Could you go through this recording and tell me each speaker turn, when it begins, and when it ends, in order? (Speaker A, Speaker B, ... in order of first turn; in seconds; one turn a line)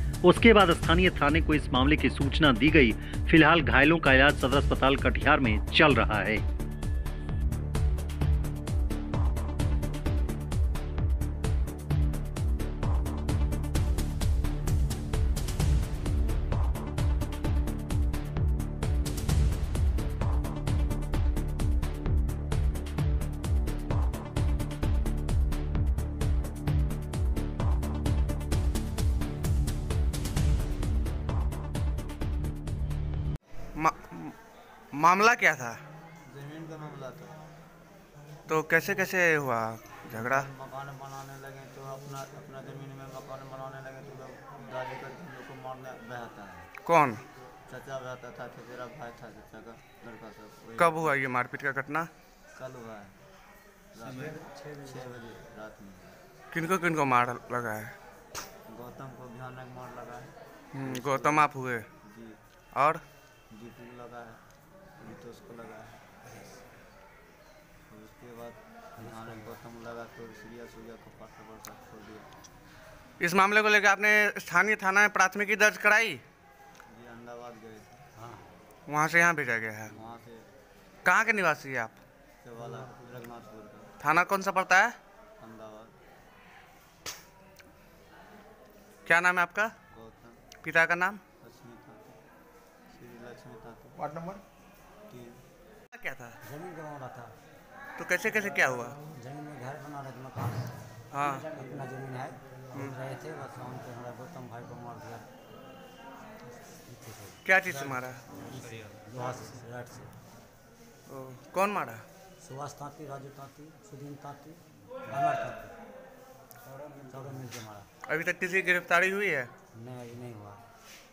Speaker A: 0.2-6.4
Speaker B: 33.8-34.4
Speaker B: 34.9-35.8
Speaker C: 36.3-37.4
Speaker B: 38.5-40.5
Speaker C: 40.1-46.7
Speaker B: 46.8-47.2
Speaker C: 47.7-51.1
Speaker B: 50.8-52.1
Speaker C: 52.5-53.1
Speaker C: 53.9-56.2
Speaker B: 56.5-58.0
Speaker C: 58.7-60.3
Speaker B: 60.7-61.9
Speaker C: 60.8-61.5
Speaker C: 62.0-62.4
Speaker B: 62.7-63.0
Speaker C: 63.5-64.4
Speaker C: 65.0-66.0
Speaker C: 67.9-72.3
Speaker D: 69.0-69.5
Speaker B: 73.2-76.2
Speaker C: 76.9-78.0
Speaker D: 78.2-78.5
Speaker B: 78.9-80.0
Speaker C: 79.9-80.5
Speaker B: 81.0-82.0
Speaker C: 82.4-83.9
Speaker B: 84.0-84.9
Speaker C: 85.4-85.9
Speaker B: 89.0-89.7
Speaker C: 89.9-90.4
Speaker B: 90.6-91.2
Speaker C: 91.4-92.2
Speaker C: 92.9-94.3
Speaker C: 95.1-95.4
Speaker B: 95.9-96.4
Speaker D: 96.4-97.3
Speaker B: 98.0-99.0
Speaker D: 99.0-100.7
Speaker B: 101.1-101.5
Speaker D: 101.5-105.3
Speaker D: 106.8-110.1
Speaker B: 107.4-108.2
Speaker B: 111.1-112.0
Speaker D: 112.4-115.7
Speaker D: 117.0-117.9
Speaker B: 118.0-119.5
Speaker D: 119.7-120.6